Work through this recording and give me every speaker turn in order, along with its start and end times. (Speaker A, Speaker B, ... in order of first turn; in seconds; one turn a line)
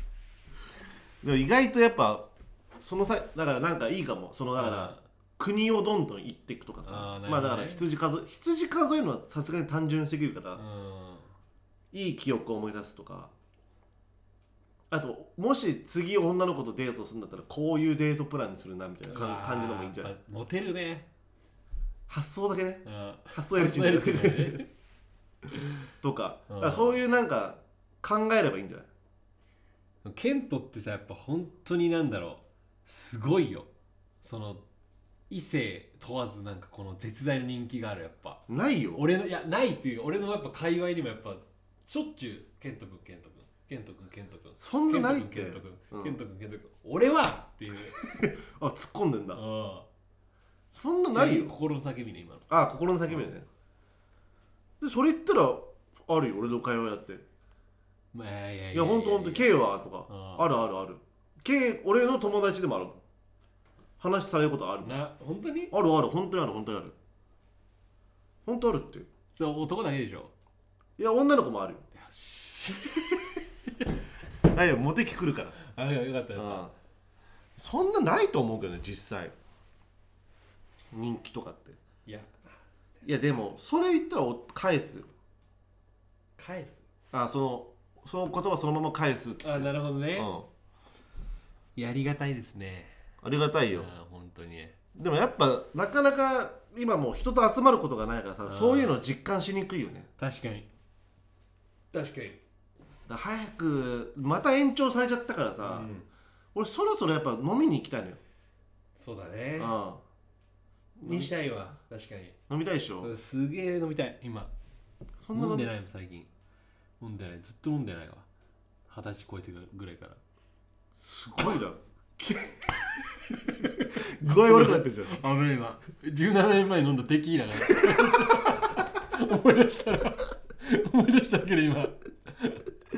Speaker A: 1.2-2.3
Speaker A: 2.8-10.6
Speaker B: 4.5-5.0
Speaker B: 6.8-7.8
Speaker B: 10.6-11.3
Speaker A: 11.9-13.3
Speaker A: 14.9-20.1
Speaker B: 19.1-21.1
Speaker A: 22.1-24.6
Speaker B: 22.8-24.7
Speaker A: 26.0-28.9
Speaker B: 26.5-27.0
Speaker B: 30.0-33.7
Speaker B: 34.2-34.6
Speaker B: 35.3-38.4
Speaker A: 38.5-39.0
Speaker B: 38.9-48.0
Speaker A: 44.6-46.2
Speaker A: 48.0-49.4
Speaker B: 49.3-49.9
Speaker A: 50.7-51.5
Speaker B: 51.1-52.5
Speaker A: 52.5-53.5
Speaker A: 54.8-57.2
Speaker B: 58.1-59.5
Speaker A: 58.7-63.0
Speaker B: 60.1-60.5
Speaker A: 64.0-64.9
Speaker B: 64.8-65.7
Speaker A: 65.7-66.9
Speaker A: 68.4-69.1
Speaker B: 69.3-70.3
Speaker A: 71.0-71.8
Speaker B: 72.0-73.2
Speaker A: 74.5-75.6
Speaker B: 75.6-76.7
Speaker A: 76.3-76.7
Speaker A: 77.6-79.3
Speaker A: 80.9-81.8
Speaker B: 82.0-82.4
Speaker A: 83.0-85.1
Speaker B: 86.4-86.8
Speaker A: 87.1-90.5
Speaker B: 89.4-90.3
Speaker B: 91.8-92.9
Speaker A: 93.2-93.9
Speaker B: 93.7-94.7
Speaker A: 94.9-100.1
Speaker B: 98.4-99.0
Speaker B: 100.2-100.7
Speaker B: 101.9-102.4
Speaker A: 103.1-105.9
Speaker B: 105.6-106.1
Speaker A: 106.5-108.2
Speaker B: 109.0-109.7
Speaker A: 109.6-110.0
Speaker A: 111.0-111.3
Speaker B: 111.0-112.3
Speaker A: 112.5-113.1
Speaker B: 113.0-114.5
Speaker A: 115.2-115.7
Speaker B: 115.3-116.3
Speaker B: 117.0-118.2
Speaker B: 118.9-120.2
Speaker A: 121.0-122.7
Speaker B: 123.3-132.6
Speaker A: 123.9-125.2
Speaker A: 127.7-128.5